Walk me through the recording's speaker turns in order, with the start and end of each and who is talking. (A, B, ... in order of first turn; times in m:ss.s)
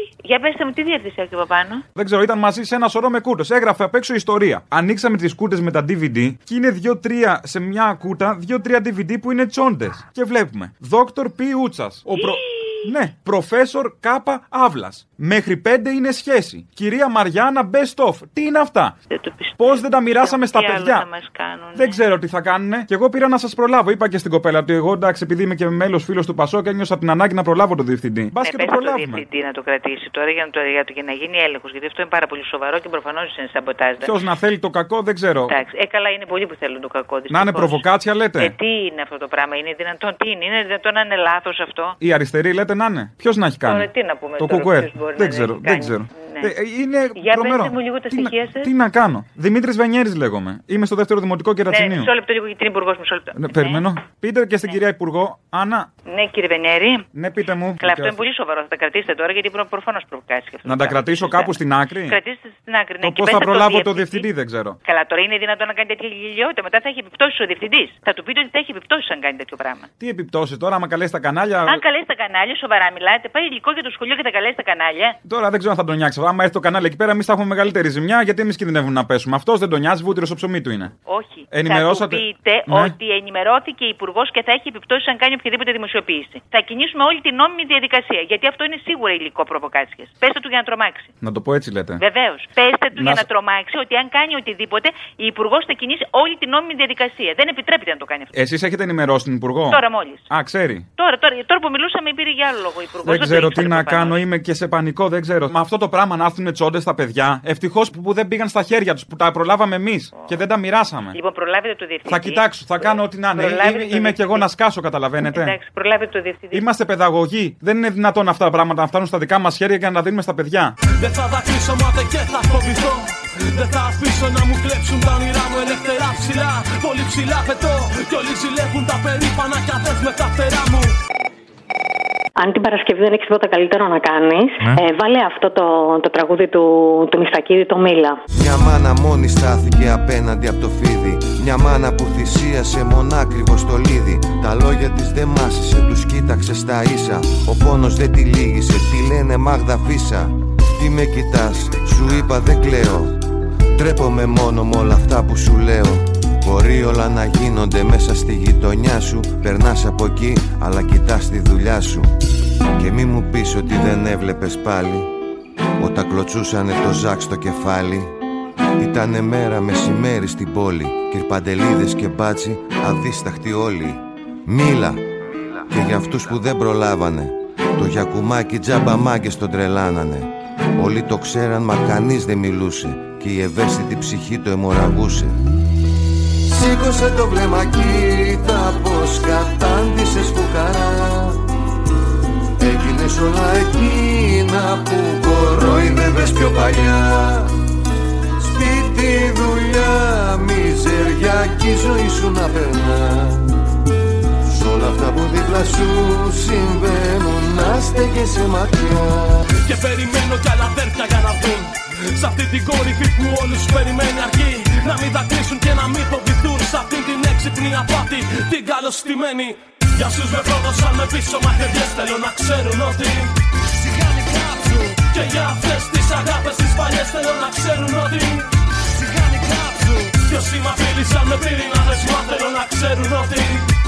0:00.2-0:01.8 A
0:02.0-0:18.9 B
0:19.1-0:22.0 A
0:19.6-0:21.0 B
0:21.8-0:29.2 B
0:28.4-0:34.1 A
0:34.0-0:35.6 B
0:35.5-0:42.0 A
0:37.3-0:38.5 B
0:42.0-0:52.1 B
0:43.6-0:46.5 A
0:47.2-0:48.7 A
0:51.7-0:53.8 A
0:53.4-0:55.9 B
0:56.1-0:57.1 A
0:57.2-0:58.2 B
0:57.8-1:04.3 A
1:00.6-1:02.2 B
1:03.0-1:04.8 B
1:04.8-1:09.9 A
1:10.0-1:11.8 B
1:11.7-1:15.2 A
1:15.3-1:20.9 B
1:21.1-1:31.1 A
1:21.5-1:22.9 B
1:31.2-1:32.0 B
1:32.0-1:38.3 A
1:33.0-1:33.2 B
1:38.4-1:40.8 B
1:39.7-1:40.3 A
1:41.0-1:44.2 A
1:43.0-1:51.2 B
1:51.1-1:54.5 A
1:52.1-1:55.6 B
1:55.3-1:56.7 A
1:56.5-2:00.7 B
2:01.0-2:11.0 C
2:12.4-2:18.2 D
2:18.3-2:33.2 E
2:33.7-2:42.1 E
2:42.8-2:45.1 E
2:45.8-2:48.1 E
2:48.8-2:55.0 E
2:55.7-3:05.4 E
3:06.5-3:11.4 E
3:12.6-3:17.5 E
3:18.4-3:23.6 E
3:24.4-3:29.5 E
3:29.6-3:43.4 C
3:43.9-3:53.7 C